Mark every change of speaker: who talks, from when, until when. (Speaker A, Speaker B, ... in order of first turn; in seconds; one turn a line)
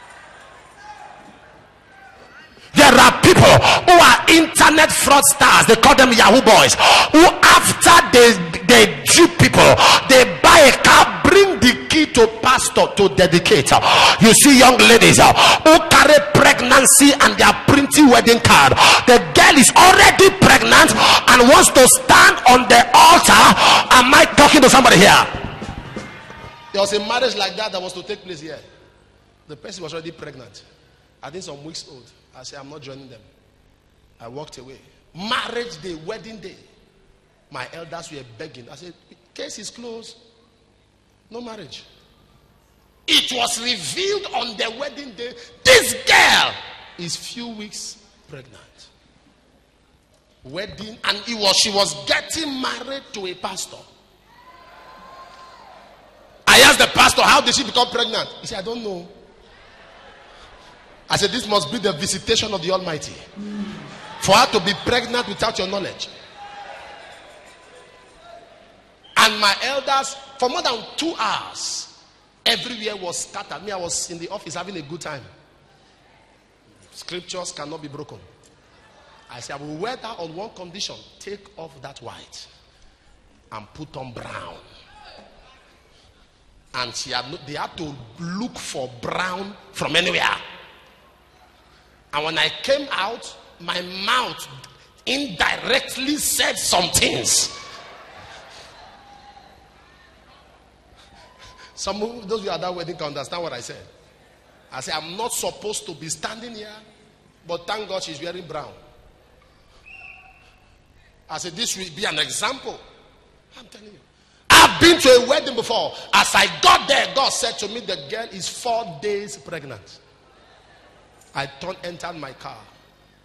Speaker A: 2.7-25.3
Speaker A: 26.7-28.6
Speaker A: 29.5-30.6
Speaker A: 31.2-33.3
Speaker A: 34.2-36.6
Speaker A: 37.5-40.2
Speaker A: 41.3-41.9
Speaker A: 43.1-48.9
Speaker A: 50.4-53.9
Speaker A: 56.5-59.1
Speaker A: 61.1-63.3
Speaker A: 64.2-66.1
Speaker A: 69.2-71.9
Speaker A: 72.5-75.3
Speaker A: 76.9-78.3
Speaker A: 79.3-82.5
Speaker A: 83.5-84.7
Speaker A: 86.7-90.4
Speaker A: 92.1-94.5
Speaker A: 95.0-97.5
Speaker A: 101.8-103.9
Speaker A: 104.7-106.8
Speaker A: 107.4-108.8
Speaker A: 111.3-112.8
Speaker A: 113.5-120.0
Speaker A: 121.3-122.7